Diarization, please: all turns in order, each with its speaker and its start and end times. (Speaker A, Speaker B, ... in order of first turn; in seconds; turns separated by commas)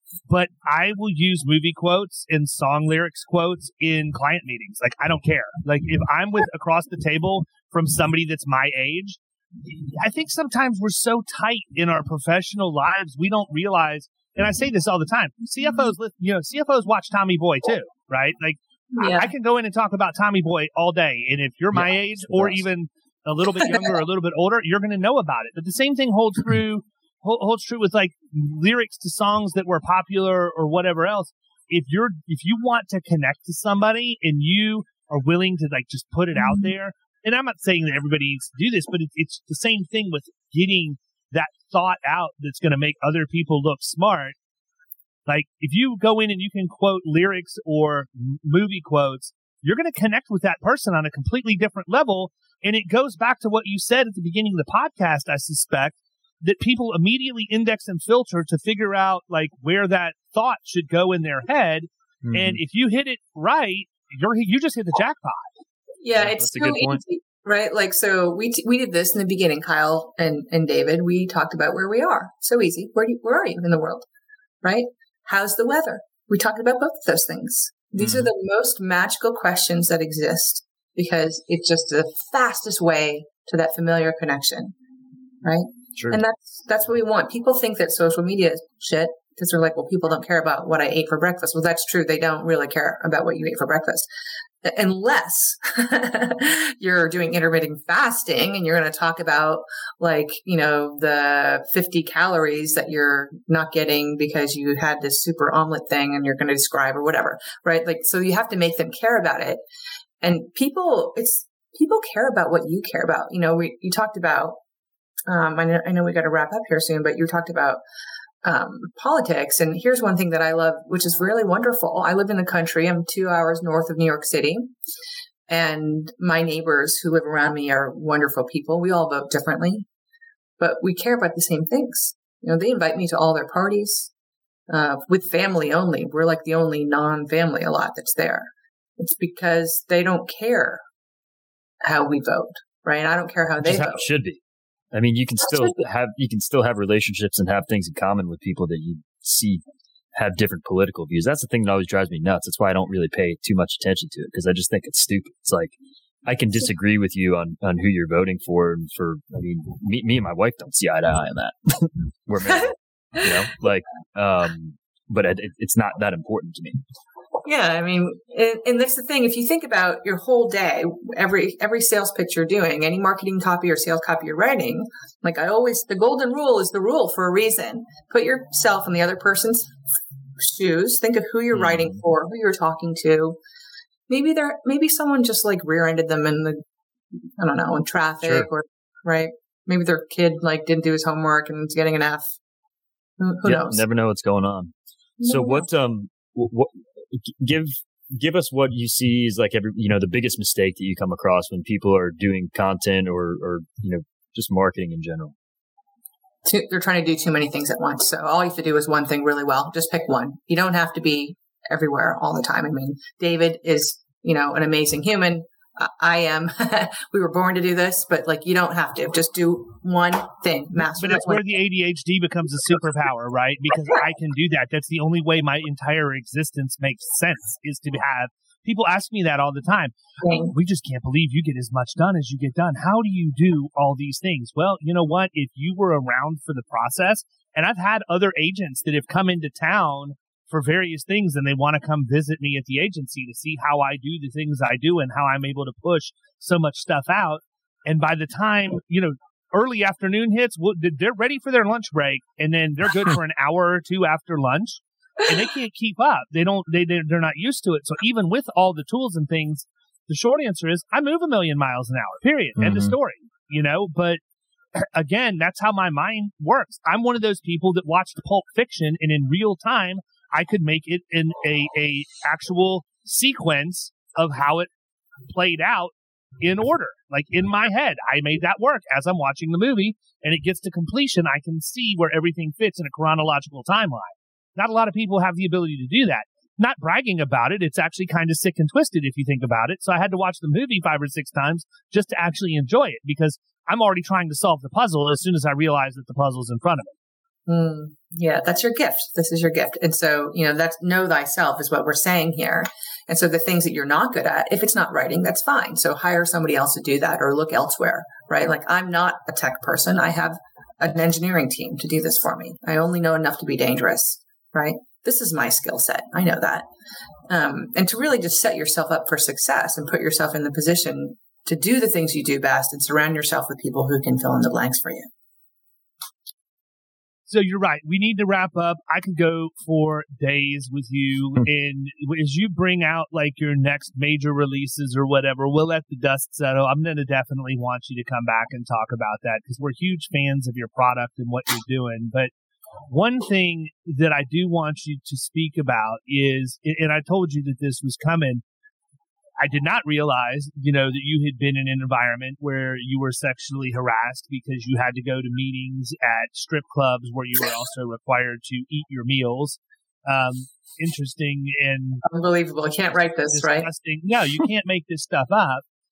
Speaker A: 0.3-44.4, Speaker B: 18.9-19.3, Speaker C: 21.7-22.6, Speaker A: 45.3-65.5, Speaker C: 62.2-62.6, Speaker B: 66.0-74.1, Speaker C: 66.1-67.0, Speaker B: 74.6-84.7, Speaker C: 78.0-78.3, Speaker B: 85.4-94.1, Speaker B: 94.6-109.6, Speaker B: 110.2-114.6, Speaker B: 115.3-117.8, Speaker B: 118.4-124.7, Speaker B: 125.5-129.9, Speaker B: 130.6-134.1, Speaker B: 134.7-140.8, Speaker B: 141.8-144.1, Speaker C: 143.6-144.4, Speaker C: 144.9-149.6, Speaker C: 150.2-166.8, Speaker B: 167.4-179.8, Speaker B: 180.4-183.4, Speaker C: 181.5-182.0, Speaker B: 184.1-186.6, Speaker B: 187.4-192.3, Speaker C: 188.2-188.5, Speaker B: 193.2-193.8, Speaker C: 193.4-205.3, Speaker B: 195.2-195.7, Speaker B: 206.4-221.4, Speaker A: 220.9-264.2, Speaker B: 230.2-230.5, Speaker C: 262.6-262.9, Speaker A: 264.8-274.7, Speaker A: 275.3-296.9, Speaker B: 297.5-316.7, Speaker B: 317.3-325.1, Speaker A: 327.3-342.3, Speaker A: 342.9-348.4, Speaker A: 349.4-362.0, Speaker B: 362.1-363.7, Speaker A: 363.3-365.6